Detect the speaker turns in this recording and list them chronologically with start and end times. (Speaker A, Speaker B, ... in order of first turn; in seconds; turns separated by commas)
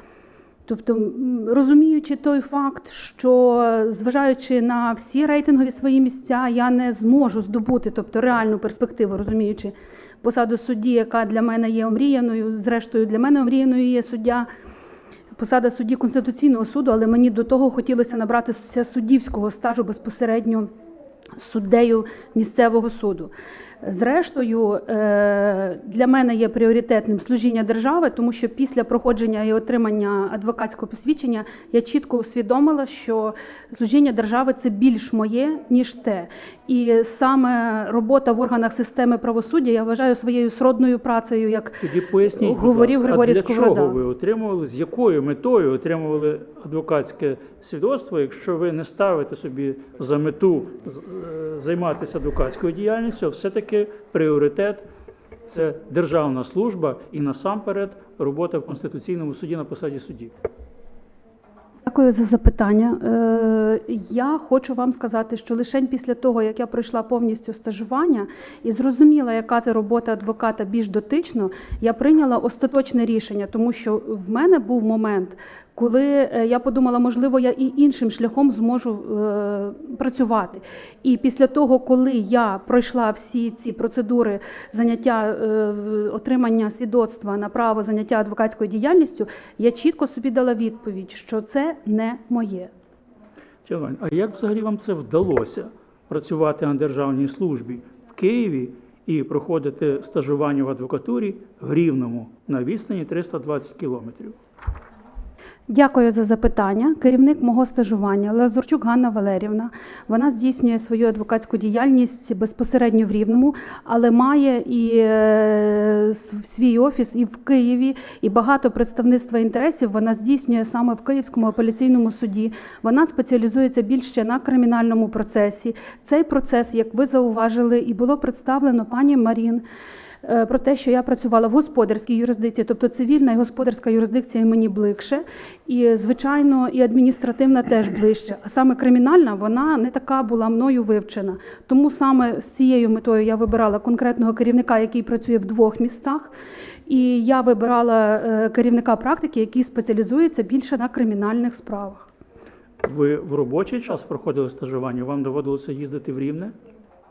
Speaker A: 0.7-14.5, Speaker A: 15.3-20.7, Speaker A: 21.4-41.8, Speaker B: 41.8-54.9, Speaker A: 42.3-44.0, Speaker B: 55.5-60.3, Speaker A: 61.8-92.7, Speaker B: 93.6-104.4, Speaker A: 105.7-129.6, Speaker A: 130.2-146.3, Speaker A: 146.9-152.1, Speaker B: 152.8-156.5